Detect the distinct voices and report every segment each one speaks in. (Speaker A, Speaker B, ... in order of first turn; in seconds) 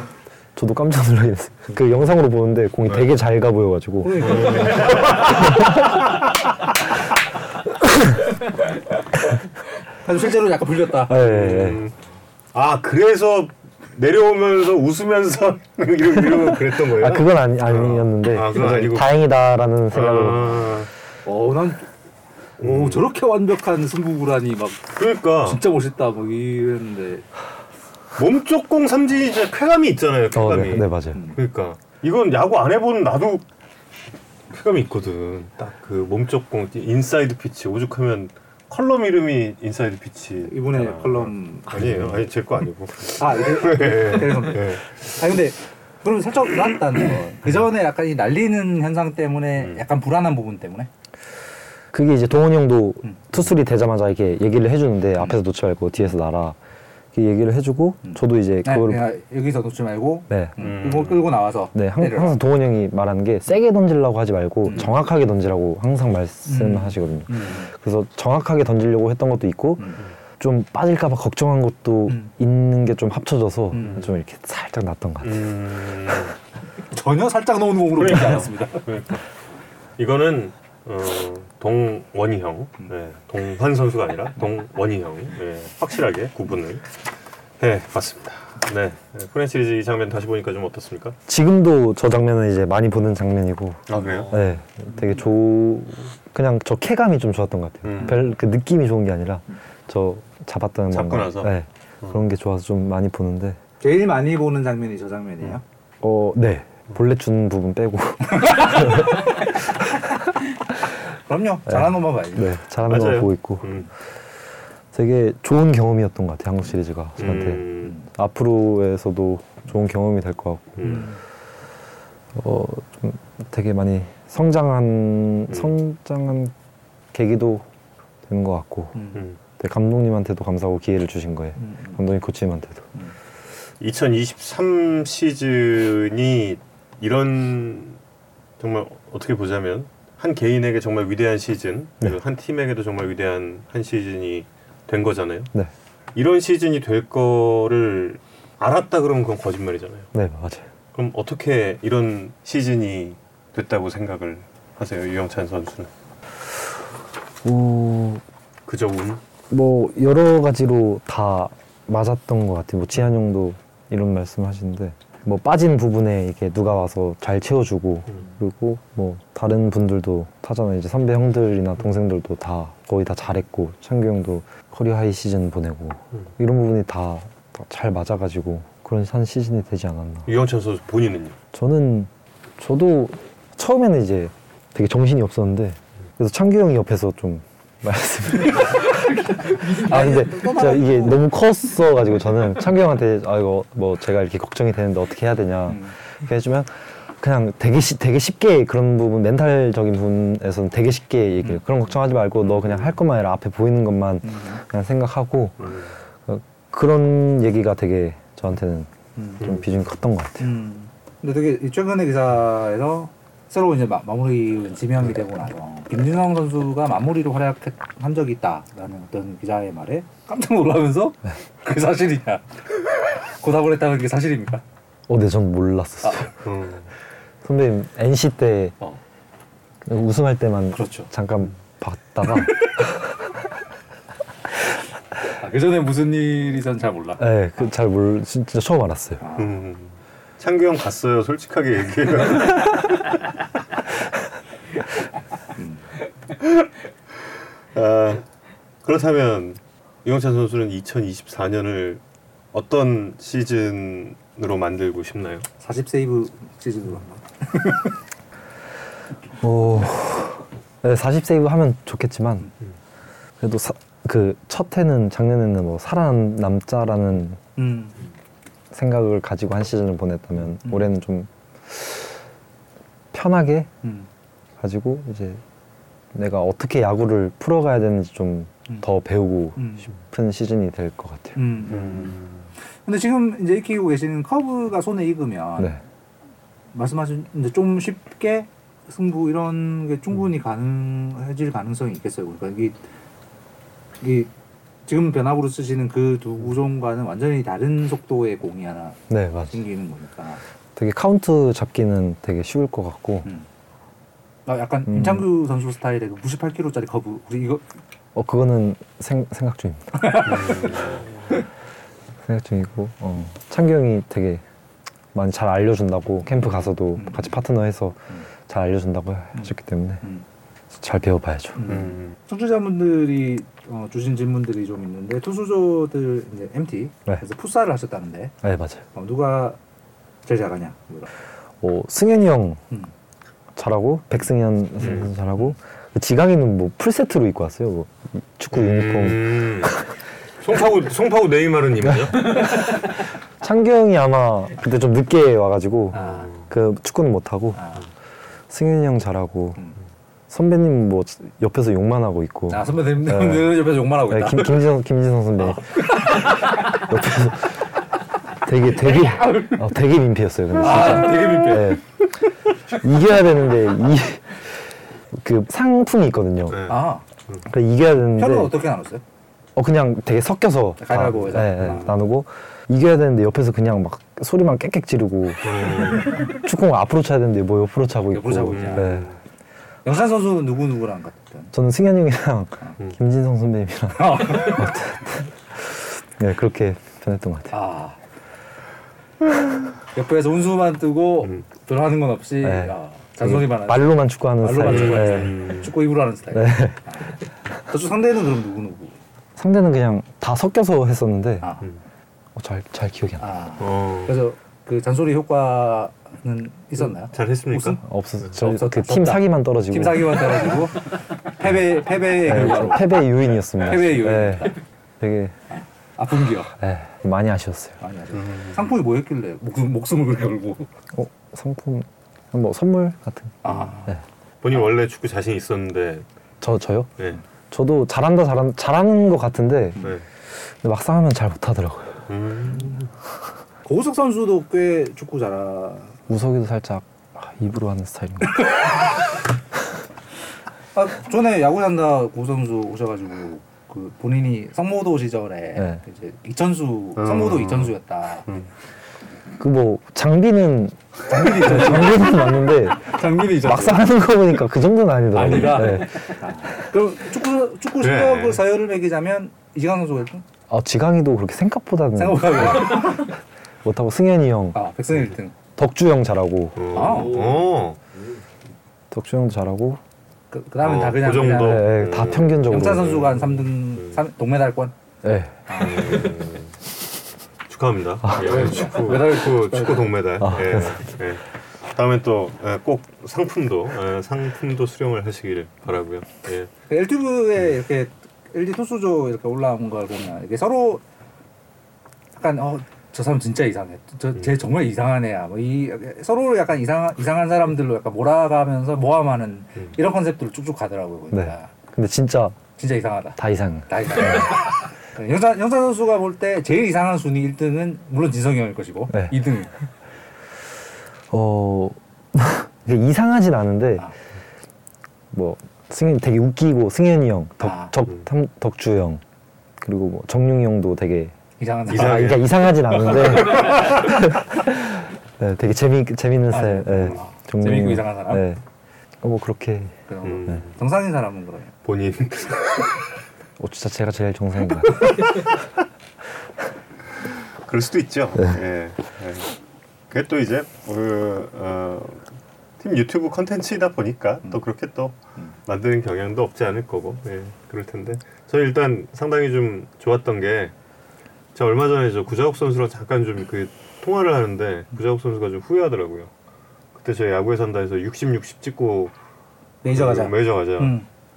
Speaker A: 0.6-6.0, 7.8-8.3, 11.1-11.8, 16.2-20.7, 30.3-31.2, 51.9-56.6, 57.1-59.0, 60.3-60.6, 61.7-75.5, 91.3-103.6, 106.0-109.6, 111.7-113.8, 114.9-121.0, 122.3-126.5, 127.1-127.7, 128.2-129.0, 129.6-132.9, 150.1-150.7, 157.4-158.2, 159.5-180.3, 181.5-205.7, 206.3-208.9, 209.4-210.5, 225.1-226.3, 227.4-228.8, 229.8-233.3, 237.2-239.2, 259.4-262.5, 263.4-267.4, 268.7-272.1, 273.1-273.7, 274.6-275.4, 276.1-281.4, 299.1-299.5, 300.8-303.3, 304.9-305.2, 308.1-310.2, 312.2-314.4, 315.1-320.0, 320.7-321.7, 328.4-328.8, 331.6-332.6, 333.6-339.9, 342.1-342.9, 343.4-347.6, 348.5-349.6, 350.3-357.6, 358.4-361.8, 362.7-364.6, 365.1-366.6, 367.4-368.6, 369.6-379.1, 381.5-387.5, 392.4-395.4, 396.3-396.8, 399.4-401.5, 402.4-403.2, 407.8-410.3, 412.2-415.3, 416.6-417.8, 420.9-424.0, 426.4-426.9, 427.5-429.9, 430.4-432.0, 436.1-438.4, 449.4-456.1, 460.5-463.1, 463.6-464.6, 465.6-466.8, 468.9-469.8, 471.3-473.0, 475.0-475.4, 480.2-480.8, 501.1-502.4, 503.2-504.4, 511.1-513.9, 515.1-519.0, 519.6-521.1, 521.8-528.4, 529.0-529.7, 533.4-535.2
Speaker B: 4.0-5.4, 10.0-11.2, 21.2-21.9, 22.6-27.2, 40.5-41.7, 43.2-50.9, 58.0-62.4, 66.5-67.7, 73.7-74.0, 76.9-78.8, 103.8-105.6, 111.2-112.5, 120.8-121.2, 128.9-129.2, 131.6-132.0, 189.4-191.2, 195.7-195.9, 204.2-204.6, 209.2-209.4, 210.4-222.6, 223.4-224.6, 230.7-231.1, 235.4-237.3, 239.2-239.6, 245.6-245.8, 255.6-257.9, 267.6-268.0, 279.6-279.9, 281.4-282.2, 282.9-285.8, 286.7-292.8, 294.0-294.3, 294.9-299.0, 299.5-300.4, 304.4-307.6, 309.9-310.9, 316.9-317.3, 321.6-328.3, 328.9-329.6, 330.2-331.1, 345.9-346.3, 347.6-347.9, 352.5-354.6, 355.6-356.3, 358.9-359.6, 360.6-361.8, 366.7-367.0, 368.1-369.0, 370.8-371.9, 378.1-379.0, 379.8-381.5, 384.0-384.7, 387.5-388.0, 389.9-398.9, 403.2-407.8, 408.4-413.0, 413.6-414.6, 416.0-416.5, 417.8-420.7, 423.4-424.0, 433.6-435.9, 440.7-448.3, 451.1-453.9, 455.1-460.2, 461.9-463.1, 464.5-465.3, 466.7-467.4, 470.3-471.8, 472.4-474.7, 475.5-476.1, 478.1-479.9, 486.7-490.8, 492.1-501.5, 502.6-509.5, 517.4-517.7, 521.4-522.2, 526.3-528.2, 529.9-531.5, 559.6-560.9
Speaker C: 4.2-5.9, 11.1-11.9, 12.5-19.1, 19.9-20.9, 22.6-23.1, 24.9-25.6, 28.2-33.4, 34.5-44.9, 60.6-61.3, 73.8-74.1, 75.2-76.3, 78.0-79.2, 80.0-86.9, 87.6-91.2, 93.9-94.3, 97.8-98.2, 100.9-102.2, 112.8-113.9, 117.2-118.0, 120.8-121.1, 125.5-125.7, 133.8-138.0, 138.6-145.5, 146.1-150.1, 150.9-155.9, 158.7-159.2, 180.3-181.3, 202.6-202.9, 205.6-205.9, 226.4-226.9, 239.3-243.0, 247.7-248.2, 248.8-252.0, 252.5-255.5, 281.7-282.4, 310.2-311.1, 321.7-322.1, 334.8-335.1, 338.5-339.7, 340.4-342.6, 366.5-367.4, 375.4-376.1, 378.5-379.1, 394.6-395.7, 403.6-404.1, 407.1-407.8, 418.2-418.5, 424.4-426.0, 432.1-432.7, 447.0-447.7, 457.8-458.4, 466.6-467.8, 470.6-473.6, 475.6-476.5, 477.5-481.2, 481.7-486.5, 521.7-523.8, 530.0-530.5, 531.6-532.8, 537.4-539.3, 539.9-542.0, 542.6-550.5, 551.3-556.1, 556.7-558.9, 559.7-560.8